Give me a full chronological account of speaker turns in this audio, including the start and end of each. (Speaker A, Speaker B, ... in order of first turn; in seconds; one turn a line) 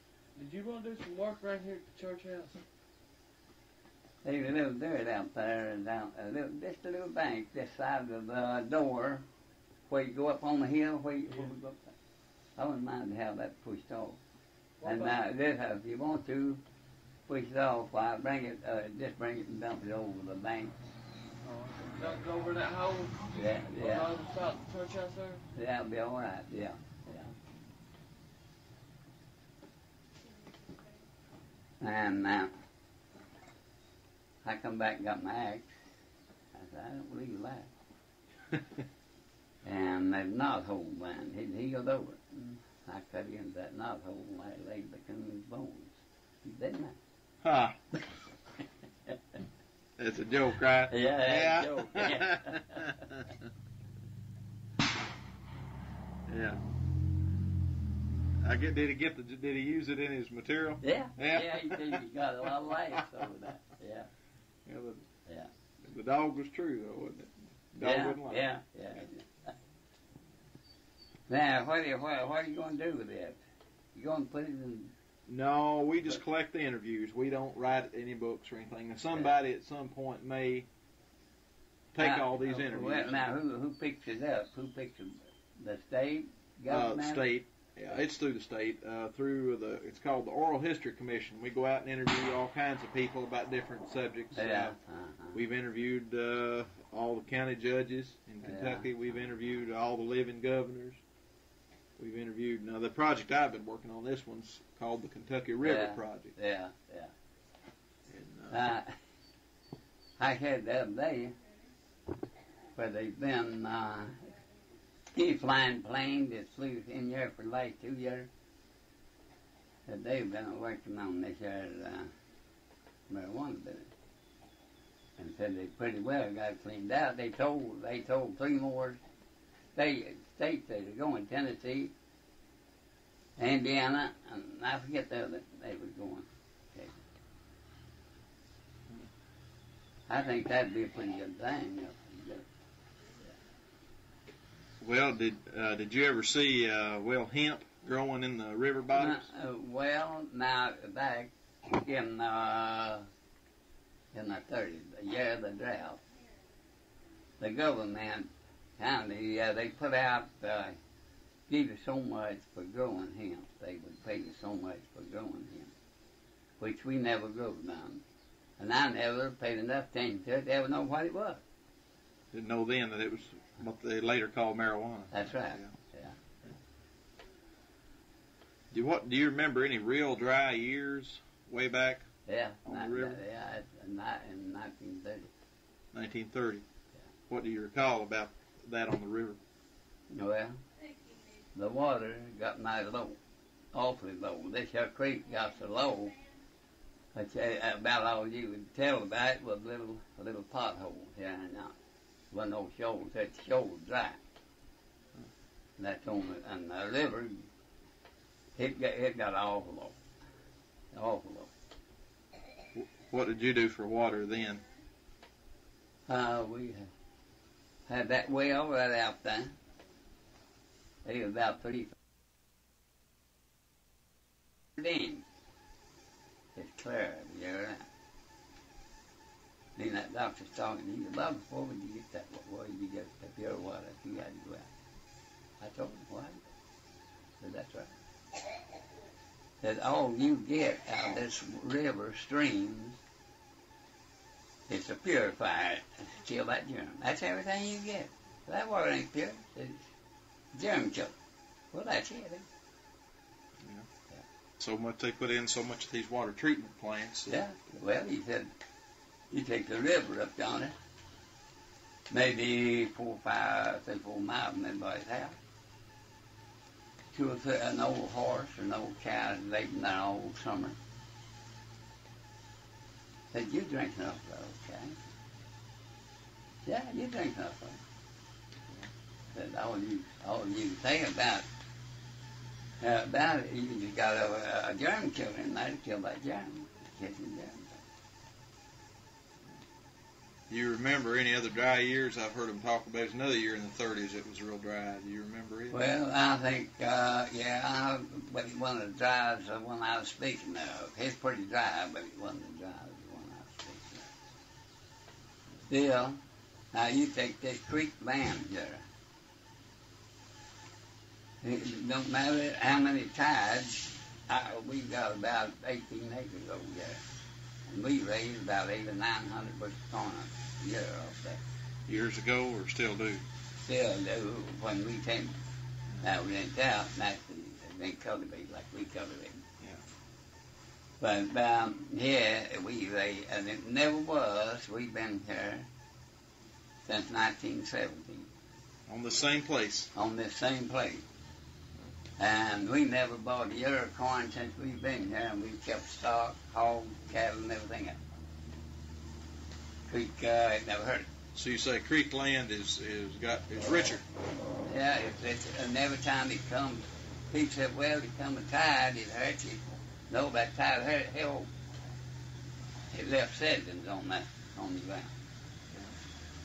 Speaker A: 0.3-2.6
Speaker B: 4.2-9.2
Speaker B: 9.9-11.9
Speaker B: 12.6-14.2
Speaker A: 14.8-15.2
Speaker B: 14.8-16.6
Speaker B: 17.3-20.8
Speaker A: 21.4-25.4
Speaker B: 23.3-24.1
Speaker B: 25.5-27.3
Speaker B: 31.8-32.5
Speaker B: 34.4-35.7
Speaker B: 36.5-37.7
Speaker B: 39.6-47.0
Speaker C: 47.4-48.0
Speaker C: 50.0-53.3
Speaker B: 50.9-53.0
Speaker C: 56.3-56.6
Speaker C: 58.4-62.0
Speaker B: 60.8-64.1
Speaker C: 64.7-65.0
Speaker C: 65.8-68.4
Speaker B: 67.8-69.5
Speaker B: 71.3-73.4
Speaker B: 73.9-74.9
Speaker C: 75.3-80.7
Speaker C: 81.9-83.3
Speaker B: 82.0-87.2
Speaker C: 86.7-94.7
Speaker B: 94.3-95.3
Speaker C: 95.3-101.0
Speaker B: 98.4-98.9
Speaker C: 102.0-106.3
Speaker B: 105.6-107.1
Speaker C: 108.1-108.6
Speaker B: 108.5-109.0
Speaker B: 110.2-111.3
Speaker B: 112.8-114.3
Speaker B: 115.1-118.3
Speaker B: 119.9-122.1
Speaker B: 123.1-123.9
Speaker B: 125.2-129.0
Speaker B: 129.8-131.9
Speaker B: 133.4-137.0
Speaker B: 140.1-142.4
Speaker C: 144.8-149.2
Speaker B: 148.9-153.1
Speaker B: 154.1-156.0
Speaker B: 157.4-160.8
Speaker B: 161.5-165.7
Speaker B: 166.6-168.0
Speaker B: 168.6-171.4
Speaker C: 172.3-175.7
Speaker B: 175.1-176.1
Speaker C: 178.7-182.1
Speaker B: 182.3-185.3
Speaker C: 182.7-183.2
Speaker C: 185.9-186.6
Speaker C: 187.3-189.4
Speaker B: 190.1-190.6
Speaker B: 191.5-193.2
Speaker B: 193.7-196.1
Speaker B: 197.1-201.8
Speaker B: 202.3-204.2
Speaker B: 205.8-207.4
Speaker B: 208.6-209.9
Speaker B: 210.9-211.5
Speaker C: 212.7-214.6
Speaker B: 216.1-216.9
Speaker B: 217.9-219.5
Speaker B: 221.0-221.9
Speaker B: 224.8-225.2
Speaker B: 226.5-227.9
Speaker B: 229.8-234.7
Speaker B: 235.6-236.5
Speaker B: 237.4-237.9
Speaker B: 239.6-243.0
Speaker B: 244.7-249.9
Speaker B: 250.5-251.1
Speaker B: 251.7-252.5
Speaker C: 254.6-257.3
Speaker B: 257.3-258.5
Speaker B: 259.3-260.7
Speaker B: 262.1-265.4
Speaker B: 267.1-270.8
Speaker B: 273.3-275.0
Speaker B: 276.6-277.8
Speaker B: 279.3-281.4
Speaker B: 282.8-287.8
Speaker C: 290.5-295.8
Speaker B: 295.7-304.1
Speaker B: 305.7-306.2
Speaker B: 306.7-308.8
Speaker B: 311.4-317.0
Speaker B: 317.7-321.4
Speaker C: 321.9-323.2
Speaker B: 323.6-325.4
Speaker B: 326.0-329.4
Speaker B: 331.0-335.7
Speaker B: 336.9-338.3
Speaker C: 338.9-339.9
Speaker B: 339.9-341.0
Speaker B: 342.2-348.0
Speaker B: 349.9-351.1
Speaker C: 351.3-354.0
Speaker B: 354.6-361.5
Speaker B: 362.9-365.1